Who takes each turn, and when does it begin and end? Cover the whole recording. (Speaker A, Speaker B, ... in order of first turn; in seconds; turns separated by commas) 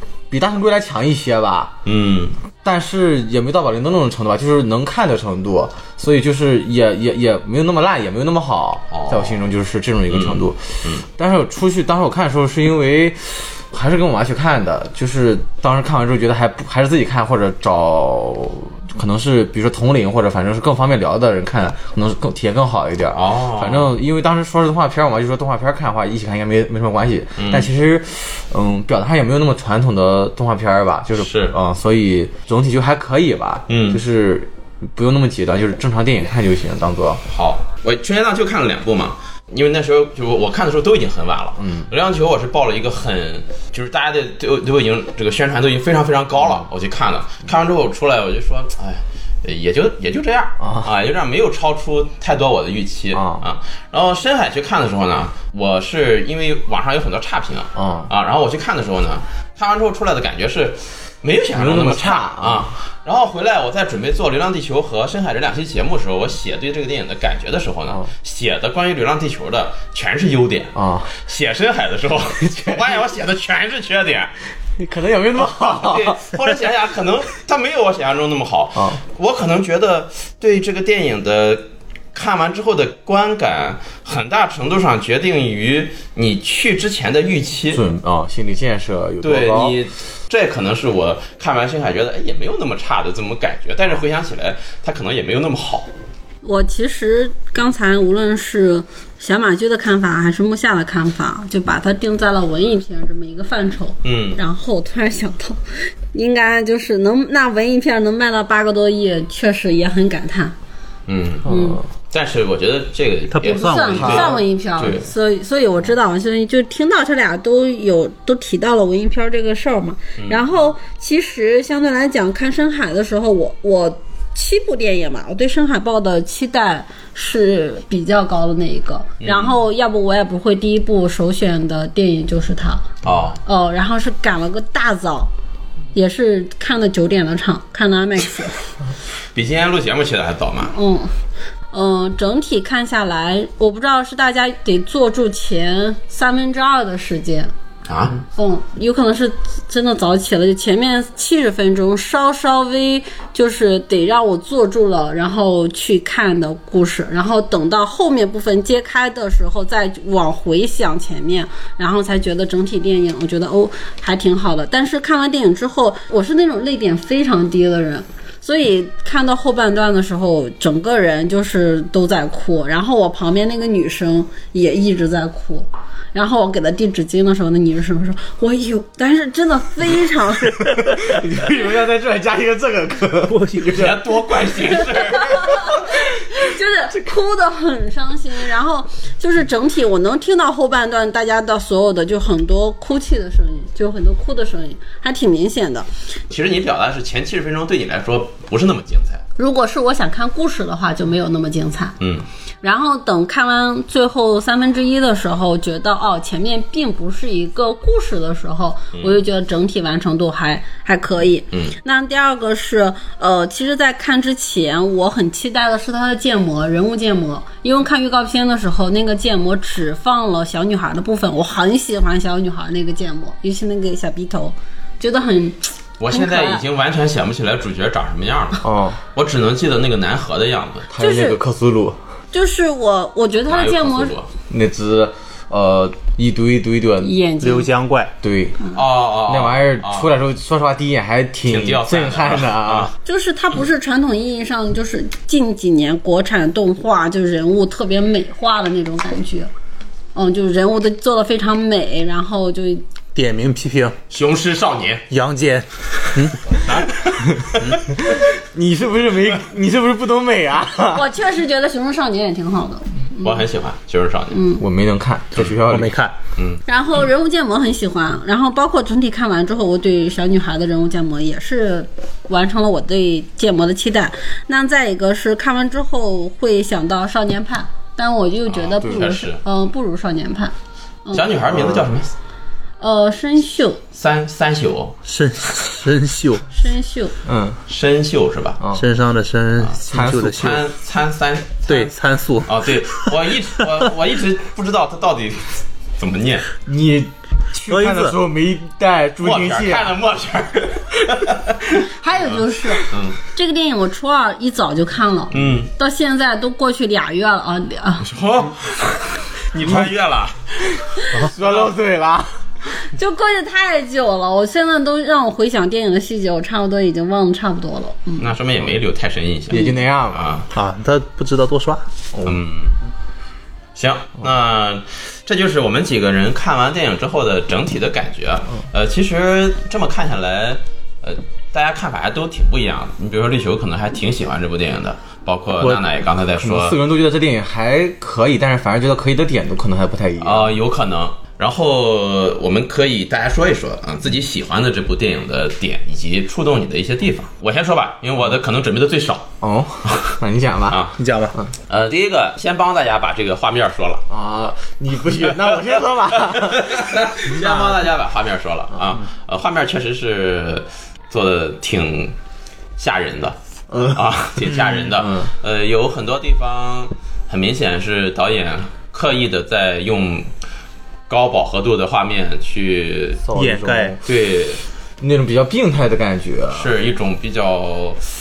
Speaker A: 0.3-1.8, Speaker B: 1.8-2.4, Speaker A: 2.6-37.2, Speaker B: 8.9-9.4, Speaker B: 10.1-11.0, Speaker B: 23.1-23.9, Speaker B: 27.4-27.7, Speaker B: 31.2-31.6, Speaker B: 33.7-34.0, Speaker B: 37.3-74.3, Speaker A: 41.6-41.9, Speaker A: 50.6-50.9, Speaker A: 53.1-53.4, Speaker A: 57.7-58.1, Speaker A: 61.5-62.7, Speaker A: 70.7-71.1, Speaker A: 72.4-73.0, Speaker A: 74.8-76.4, Speaker B: 75.6-87.8, Speaker A: 78.7-79.0, Speaker A: 87.7-89.8, Speaker B: 89.2-95.9, Speaker C: 96.4-110.5, Speaker B: 104.0-104.4, Speaker B: 111.1-111.5, Speaker A: 111.4-111.8, Speaker C: 111.5-111.8, Speaker B: 112.1-115.0, Speaker D: 113.3-114.3, Speaker C: 113.4-132.9, Speaker A: 114.0-114.3, Speaker B: 129.2-129.6, Speaker B: 133.0-133.4, Speaker C: 133.4-135.3, Speaker C: 135.9-138.6, Speaker B: 139.3-140.7, Speaker C: 140.7-141.1, Speaker C: 141.7-147.5, Speaker B: 147.8-148.2, Speaker C: 148.3-180.7, Speaker A: 180.8-184.0, Speaker D: 183.2-183.9, Speaker B: 183.7-185.5, Speaker C: 185.2-195.9, Speaker B: 196.3-199.2, Speaker C: 199.4-202.0, Speaker B: 202.0-202.2, Speaker C: 202.6-226.6, Speaker B: 208.9-209.2, Speaker B: 226.0-230.9, Speaker A: 228.6-229.0, Speaker A: 230.9-232.0, Speaker C: 231.0-231.4, Speaker C: 232.3-234.2, Speaker B: 233.5-234.3, Speaker A: 234.5-237.1, Speaker C: 237.0-237.7, Speaker D: 237.4-238.1, Speaker A: 238.2-238.6, Speaker B: 238.7-240.1, Speaker A: 239.2-242.9, Speaker B: 241.4-242.9, Speaker C: 243.0-249.5, Speaker C: 250.1-252.8, Speaker D: 253.1-254.0, Speaker B: 254.1-255.0, Speaker D: 255.1-256.6, Speaker B: 256.4-257.8, Speaker A: 258.0-261.1, Speaker C: 260.9-263.4, Speaker B: 263.2-264.4, Speaker C: 264.3-264.6, Speaker A: 264.6-265.9, Speaker D: 265.7-266.1, Speaker B: 266.4-266.6, Speaker C: 266.6-280.5, Speaker B: 278.5-279.4, Speaker B: 281.1-282.1, Speaker A: 281.5-281.9, Speaker C: 282.8-283.8, Speaker B: 283.9-284.9, Speaker D: 285.0-286.4, Speaker C: 286.5-287.1, Speaker A: 287.2-287.6, Speaker B: 287.7-288.6, Speaker A: 288.6-288.8, Speaker D: 288.7-290.7, Speaker A: 289.9-290.4, Speaker B: 290.4-291.9, Speaker D: 291.7-293.6, Speaker B: 292.4-296.5, Speaker A: 296.6-299.9, Speaker D: 297.7-298.2, Speaker B: 299.2-303.2, Speaker C: 302.0-308.1, Speaker B: 305.3-305.7, Speaker B: 308.0-311.7, Speaker A: 311.1-312.4, Speaker C: 312.9-318.3, Speaker B: 318.2-320.5, Speaker A: 319.5-320.2, Speaker D: 320.5-321.8, Speaker A: 322.1-322.4, Speaker B: 322.2-322.8, Speaker B: 323.7-336.8, Speaker A: 336.3-340.6, Speaker B: 340.2-349.3, Speaker A: 349.4-351.5, Speaker B: 350.7-350.9, Speaker D: 351.0-351.4, Speaker B: 351.7-354.0, Speaker A: 354.1-357.8, Speaker B: 355.3-362.1, Speaker B: 362.8-370.3, Speaker A: 363.7-365.3, Speaker B: 371.1-373.3, Speaker A: 373.2-374.0, Speaker D: 373.3-374.0, Speaker B: 374.0-374.6, Speaker A: 375.0-376.8, Speaker B: 376.5-378.0